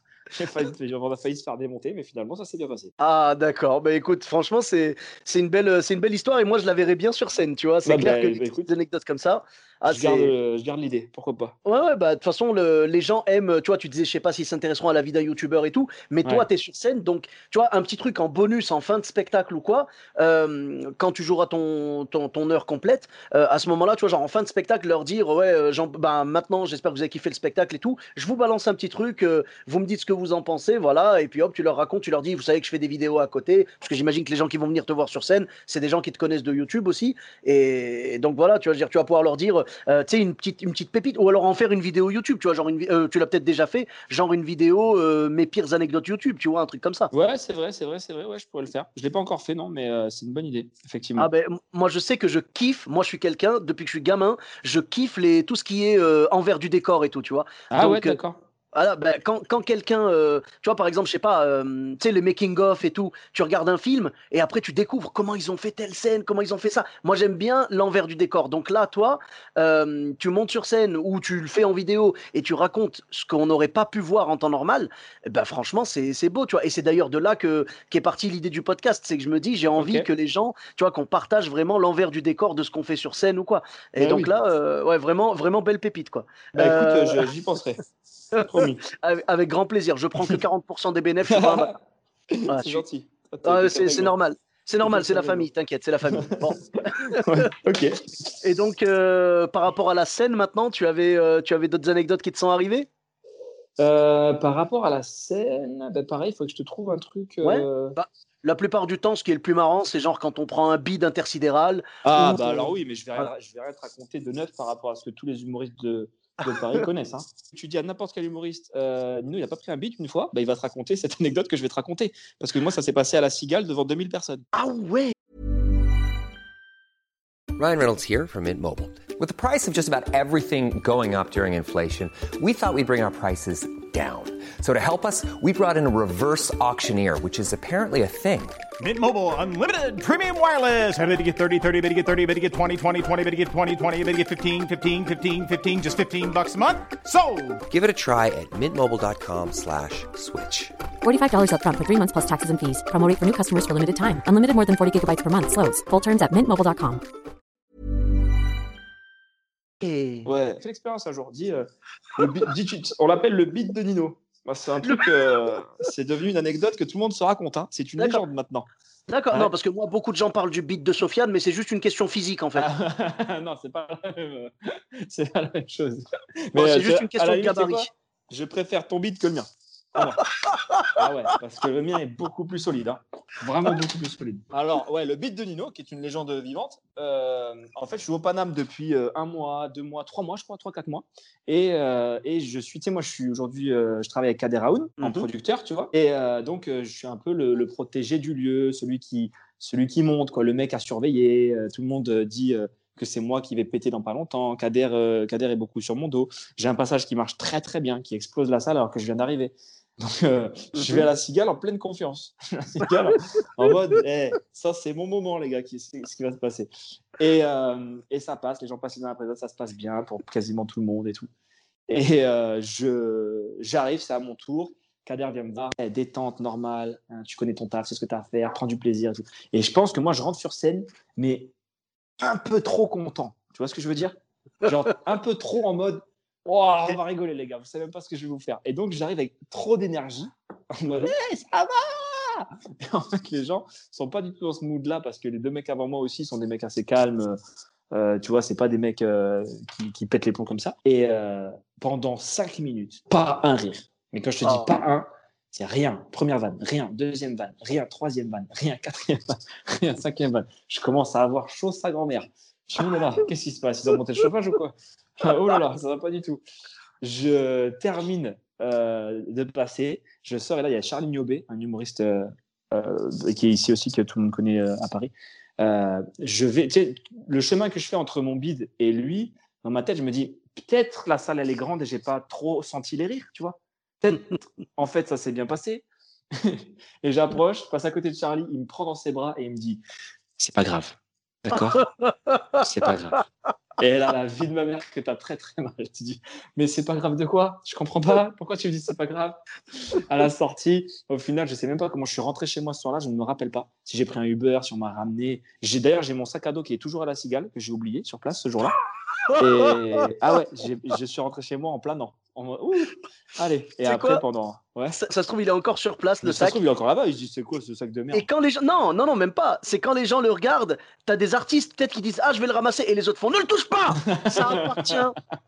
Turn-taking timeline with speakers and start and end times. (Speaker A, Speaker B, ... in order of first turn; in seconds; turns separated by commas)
Speaker A: 0.3-2.9, Speaker B: 3.0-10.3, Speaker A: 7.8-8.7, Speaker A: 9.9-11.5, Speaker B: 11.6-47.1, Speaker A: 47.1-51.3, Speaker B: 51.2-58.2, Speaker A: 57.7-58.4, Speaker B: 58.7-87.2, Speaker A: 79.8-80.1, Speaker A: 84.0-84.3, Speaker A: 86.5-87.8, Speaker B: 88.3-91.7, Speaker A: 88.4-88.8, Speaker A: 91.3-91.7, Speaker A: 92.3-94.1, Speaker B: 92.5-92.8, Speaker B: 93.4-97.2, Speaker A: 94.8-95.5, Speaker A: 96.1-96.5, Speaker A: 97.1-98.0, Speaker B: 98.4-102.9, Speaker A: 103.8-108.0, Speaker B: 107.4-112.7, Speaker A: 112.0-124.5, Speaker B: 116.4-116.8, Speaker B: 124.5-125.1, Speaker C: 127.5-138.7, Speaker D: 138.8-147.6, Speaker C: 147.7-150.7, Speaker E: 151.0-157.0, Speaker B: 159.8-160.3, Speaker A: 160.2-168.7, Speaker B: 168.0-168.2, Speaker B: 169.1-172.6, Speaker A: 172.5-180.3, Speaker B: 176.5-177.9, Speaker B: 180.4-180.9, Speaker A: 180.9-221.3, Speaker B: 195.0-195.3, Speaker A: 221.9-231.5, Speaker A: 232.2-247.4, Speaker A: 247.9-266.4, Speaker B: 254.4-254.7, Speaker A: 267.0-285.8, Speaker A: 286.4-289.8, Speaker A: 290.4-291.9, Speaker B: 292.0-292.5, Speaker A: 292.6-293.2, Speaker A: 293.8-308.8, Speaker B: 309.3-309.7, Speaker A: 309.3-315.0, Speaker B: 313.8-314.2, Speaker B: 314.9-316.6, Speaker A: 316.2-318.2, Speaker B: 318.1-325.1, Speaker A: 323.9-324.9